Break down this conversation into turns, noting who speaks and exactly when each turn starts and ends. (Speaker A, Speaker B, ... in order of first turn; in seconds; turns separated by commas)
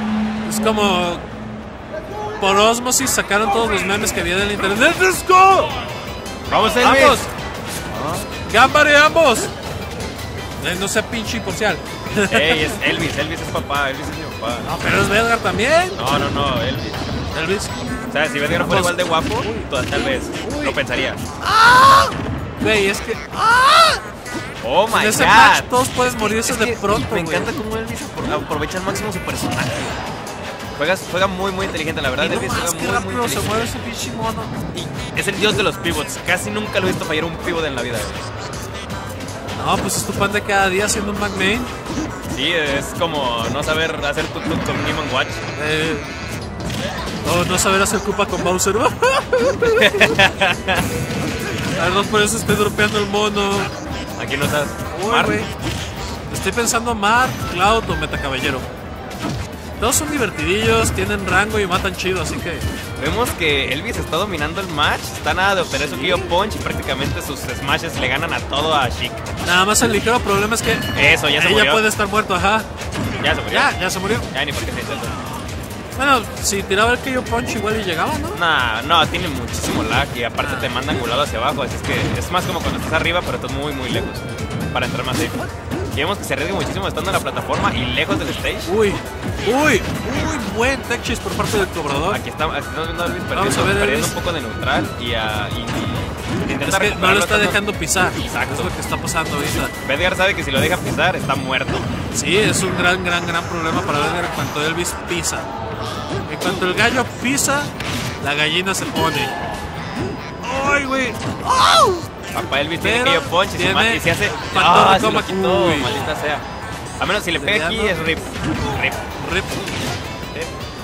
Speaker A: 0.4-1.2, Speaker A: 2.4-5.7, Speaker B: 6.5-7.2, Speaker A: 6.8-7.3, Speaker B: 7.9-8.3, Speaker A: 8.4-9.5, Speaker A: 10.6-12.8, Speaker B: 12.3-15.0, Speaker A: 14.6-16.0, Speaker B: 15.9-17.0, Speaker A: 17.3-17.7, Speaker B: 18.1-21.2, Speaker A: 18.5-19.7, Speaker A: 20.4-20.8, Speaker A: 21.4-24.0, Speaker B: 24.6-30.0, Speaker A: 24.9-27.5, Speaker B: 30.8-33.7, Speaker A: 32.2-34.5, Speaker B: 34.7-38.3, Speaker A: 39.6-41.7, Speaker B: 42.3-45.4, Speaker A: 45.5-46.1, Speaker A: 47.2-50.1, Speaker B: 49.6-50.8, Speaker A: 51.8-53.7, Speaker B: 54.2-55.4, Speaker A: 54.9-55.5, Speaker A: 56.3-58.7, Speaker A: 59.8-62.7, Speaker B: 63.0-69.2, Speaker A: 65.7-66.2, Speaker A: 69.4-72.7, Speaker B: 70.9-71.8, Speaker B: 73.2-73.7, Speaker A: 73.5-74.3, Speaker B: 74.3-75.1, Speaker A: 76.0-78.4, Speaker B: 78.3-88.7, Speaker A: 80.4-80.7, Speaker A: 88.7-92.2, Speaker B: 92.1-97.6, Speaker A: 93.3-94.2, Speaker A: 96.6-99.7, Speaker B: 98.2-98.7, Speaker B: 99.8-101.9, Speaker A: 102.1-105.5, Speaker A: 106.3-109.3, Speaker A: 110.4-112.1, Speaker B: 112.3-116.4, Speaker A: 112.8-116.0, Speaker B: 117.0-119.0, Speaker A: 117.3-118.0, Speaker A: 119.2-119.6